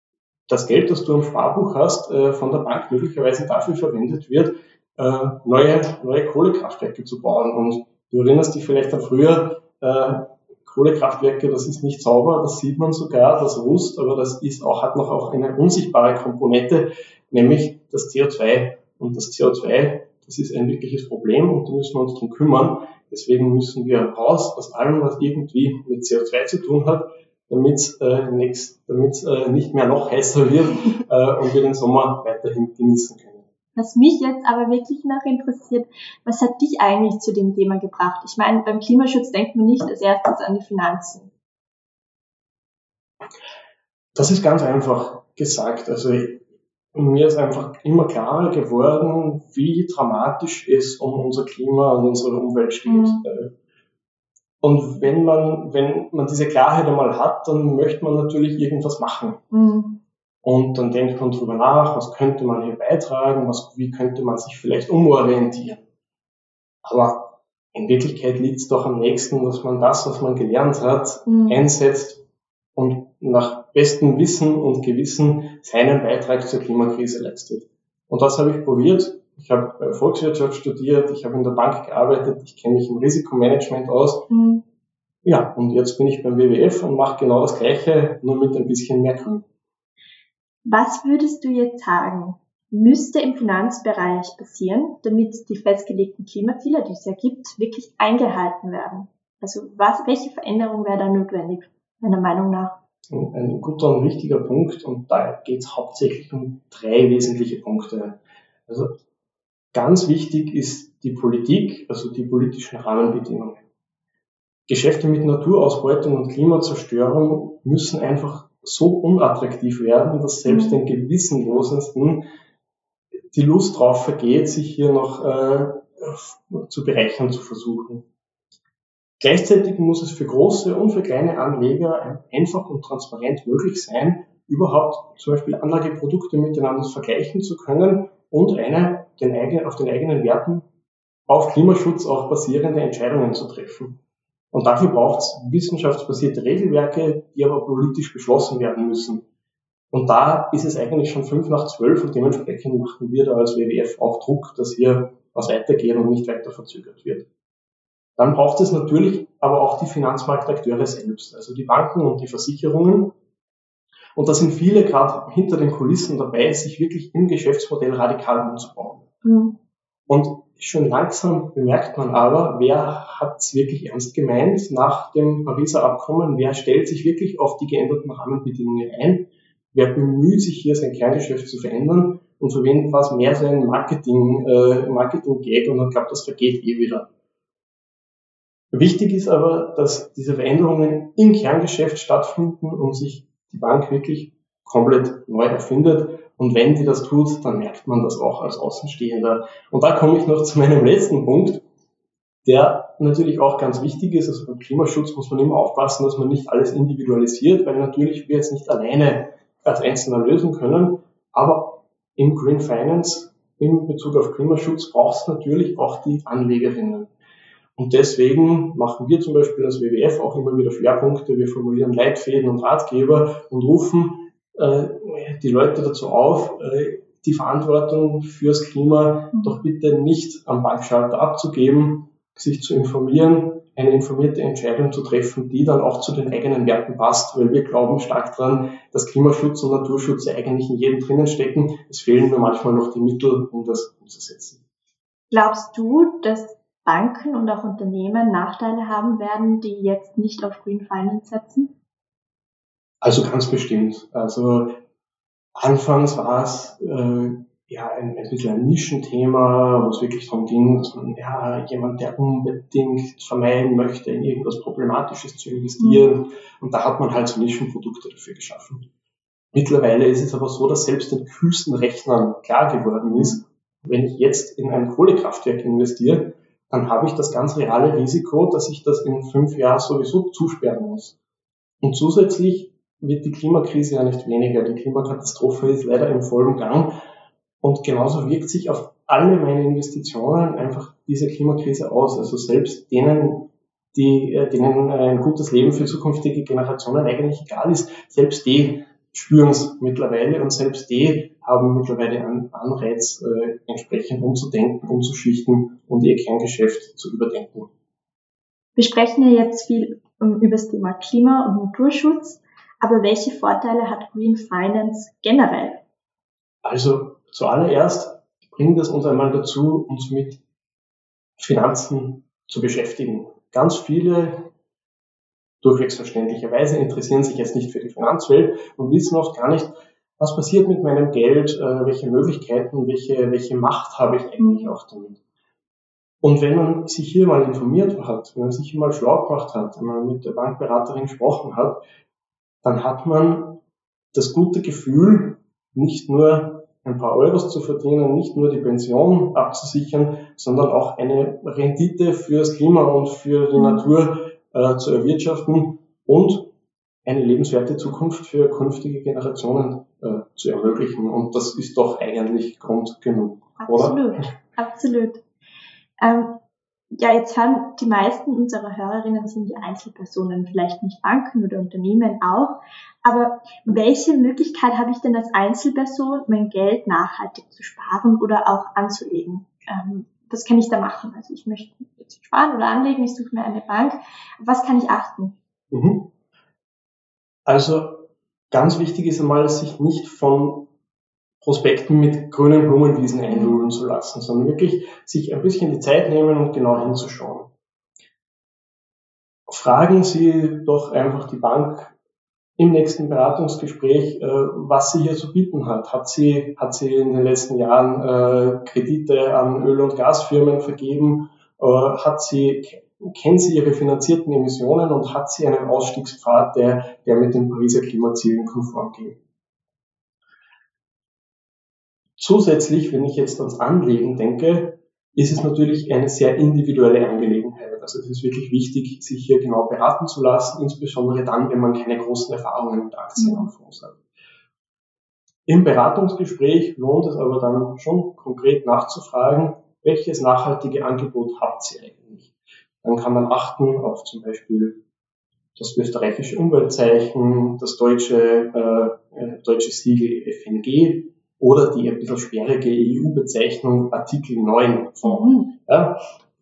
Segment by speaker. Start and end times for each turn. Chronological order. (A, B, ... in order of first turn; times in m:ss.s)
0:00.5-0:33.4 A
0:33.8-0:41.3 B
0:44.1-0:53.5 A
0:52.8-0:53.2 B
0:54.6-0:59.4 A
0:59.5-1:00.0 B
1:00.4-1:05.8 A
1:06.8-1:12.2 A
1:11.3-1:11.6 B
1:12.7-1:24.3 A
1:24.3-1:24.6 B
1:25.2-1:29.4 A
1:30.6-1:42.8 B
1:43.1-1:49.0 A
1:49.7-1:53.6 A
1:54.7-2:02.3 A
2:00.5-2:00.8 B
2:03.3-2:08.0 A
2:09.2-2:20.6 A
2:21.3-2:24.0 A
2:24.5-2:29.2 A
2:29.9-2:37.3 A
2:38.2-2:43.1 A
2:44.2-2:49.1 A
2:49.2-2:49.6 B
2:50.1-3:07.1 A
3:08.7-3:21.6 A
3:22.4-3:37.1 A
3:37.8-4:04.6 A
4:05.3-4:11.7 B
4:13.0-4:14.8 A
4:15.6-4:28.8 A
4:25.8-4:26.0 B
4:29.5-4:41.2 A
4:41.8-4:46.9 A
4:47.6-5:07.7 A
5:08.8-5:15.8 B
5:16.6-5:20.4 A
5:21.4-5:24.5 A
5:25.6-5:35.2 A
5:34.4-5:34.7 B
5:36.2-5:41.8 A
5:42.6-5:43.6 A
5:44.1-5:56.5 A
5:57.0-6:04.3 A
6:03.6-6:05.2 B
6:06.0-6:06.4 B
6:06.9-6:25.4 B
6:25.7-6:26.1 A
6:27.4-6:30.7 A
6:31.4-6:37.5 A
6:39.5-6:41.9 A
6:42.6-6:59.2 A
7:02.2-7:14.0 A
7:15.5-7:24.8 A
7:25.6-7:36.0 A
7:35.0-7:35.5 B